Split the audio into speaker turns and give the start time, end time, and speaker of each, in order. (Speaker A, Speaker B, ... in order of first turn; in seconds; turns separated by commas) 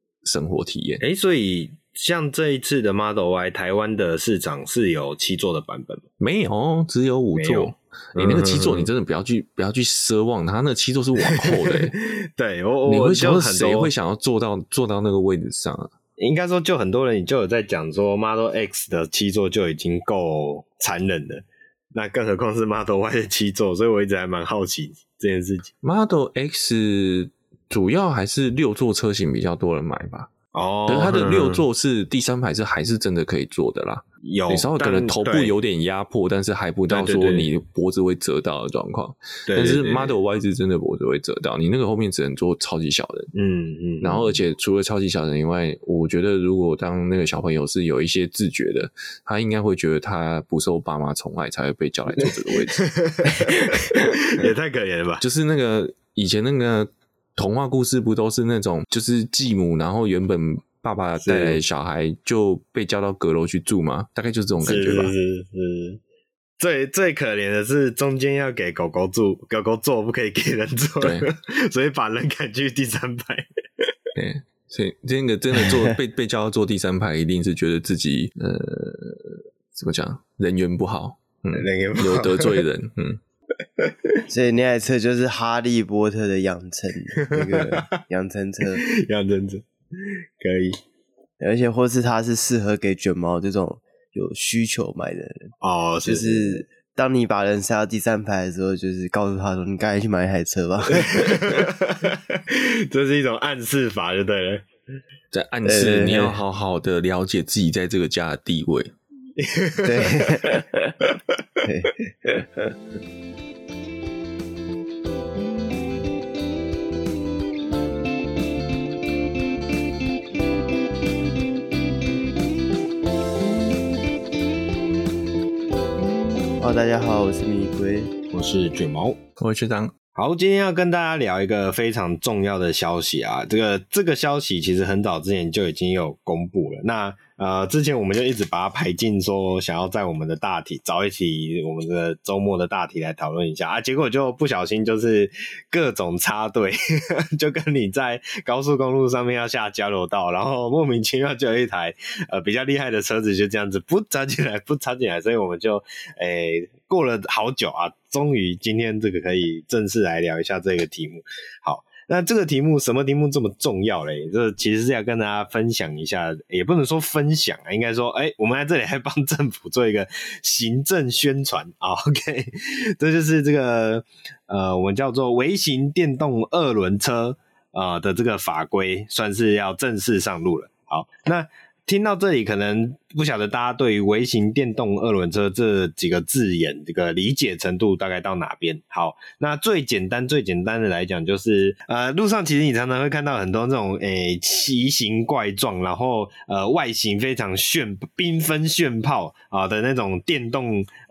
Speaker A: 0.2-1.0, Speaker B: 1.0-6.0, Speaker A: 6.2-11.9, Speaker B: 7.4-8.9, Speaker B: 11.2-13.9, Speaker A: 12.8-15.9, Speaker B: 16.2-25.7, Speaker A: 25.8-30.3, Speaker B: 30.5-31.6, Speaker A: 30.9-43.3, Speaker B: 34.2-35.5, Speaker B: 36.9-37.5, Speaker B: 39.5-40.1, Speaker B: 43.3-44.3, Speaker A: 44.0-52.8, Speaker B: 52.2-55.2, Speaker A: 55.2-65.1, Speaker B: 61.2-61.6, Speaker B: 64.6-66.0, Speaker B: 66.6-73.5, Speaker A: 71.0-71.3, Speaker A: 74.1-83.2, Speaker B: 81.5-82.6, Speaker B: 83.8-84.2, Speaker C: 84.3-88.8, Speaker B: 87.2-88.0, Speaker B: 88.8-90.8, Speaker C: 91.4-95.5, Speaker B: 95.6-96.6, Speaker C: 96.0-101.7, Speaker B: 100.9-104.6, Speaker A: 105.3-108.9, Speaker C: 105.6-106.3, Speaker B: 109.4-110.7, Speaker C: 109.8-111.0, Speaker C: 111.6-112.7, Speaker C: 126.6-128.1, Speaker B: 128.3-129.2, Speaker A: 129.4-129.9, Speaker B: 130.2-200.9